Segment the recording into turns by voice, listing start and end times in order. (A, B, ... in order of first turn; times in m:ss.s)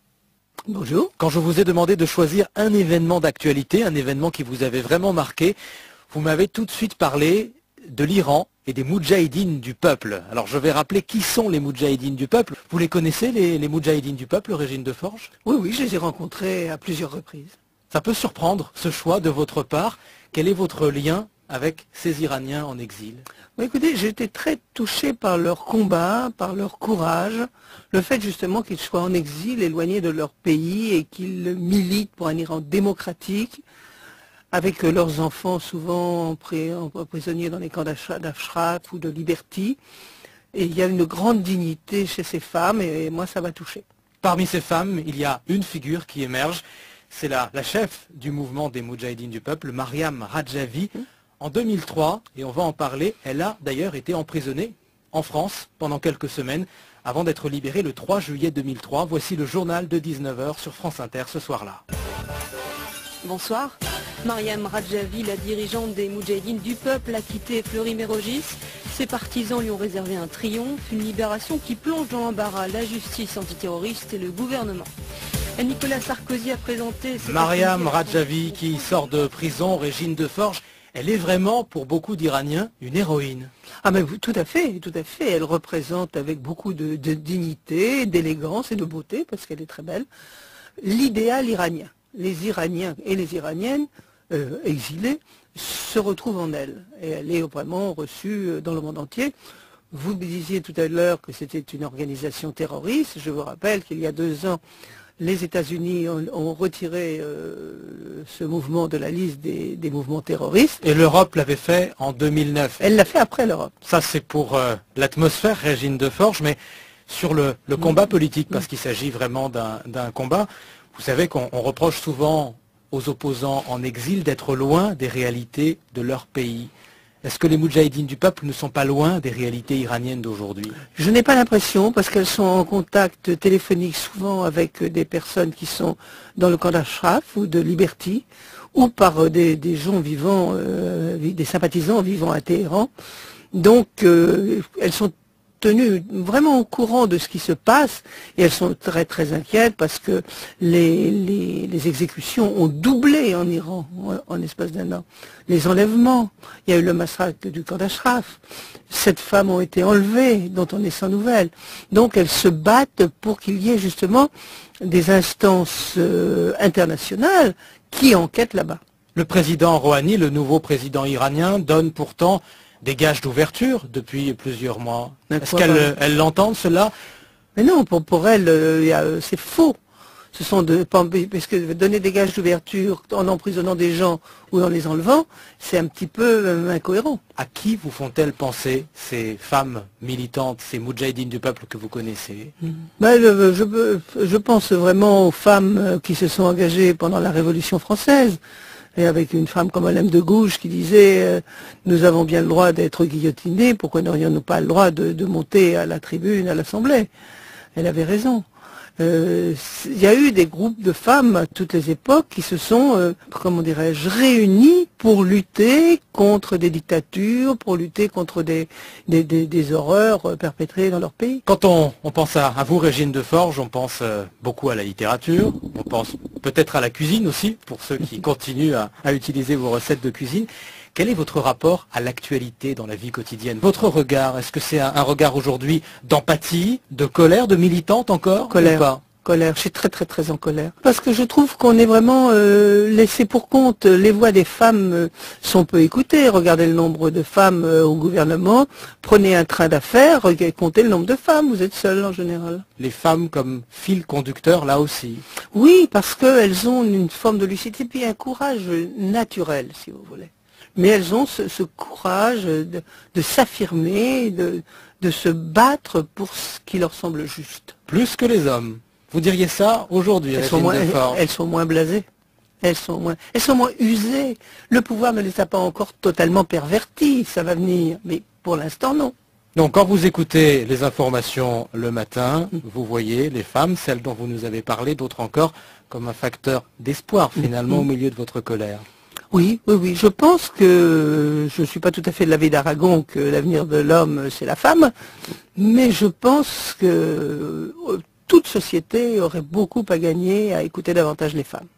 0:00.7-0:01.1 A
0:01.2-0:05.6 B
0:06.1-0:15.3 B
0:15.4-0:17.6 A
0:17.9-0:23.2 B
0:23.6-0:33.6 A
0:34.5-0:39.8 A
0:40.5-0:43.8 A
0:44.2-1:01.8 B
1:03.2-1:14.9 C
1:15.6-1:18.7 C
1:17.2-1:23.5 B
1:23.8-1:30.1 A
1:30.8-1:39.3 A
1:39.9-1:44.6 A
1:45.2-1:50.8 A
1:50.8-1:52.9 B
1:52.8-1:53.7 A
1:53.8-2:06.7 B
2:07.2-2:10.8 B
2:10.9-2:22.9 A
2:23.5-2:48.8 A
2:49.1-2:56.9 B
2:55.3-2:55.9 A
2:57.6-2:59.8 A
3:00.3-3:07.2 A
3:07.4-3:12.5 B
3:13.0-3:18.4 A
3:19.0-3:27.1 A
3:27.8-3:28.4 A
3:29.0-3:41.4 A
3:41.4-3:59.0 B
3:58.4-4:12.6 A
4:12.8-4:15.2 B
4:15.5-4:27.7 A
4:27.9-4:31.2 B
4:30.4-4:32.0 A
4:32.6-4:39.1 A
4:39.5-4:48.8 B
4:49.3-4:54.9 A
4:55.6-5:01.7 A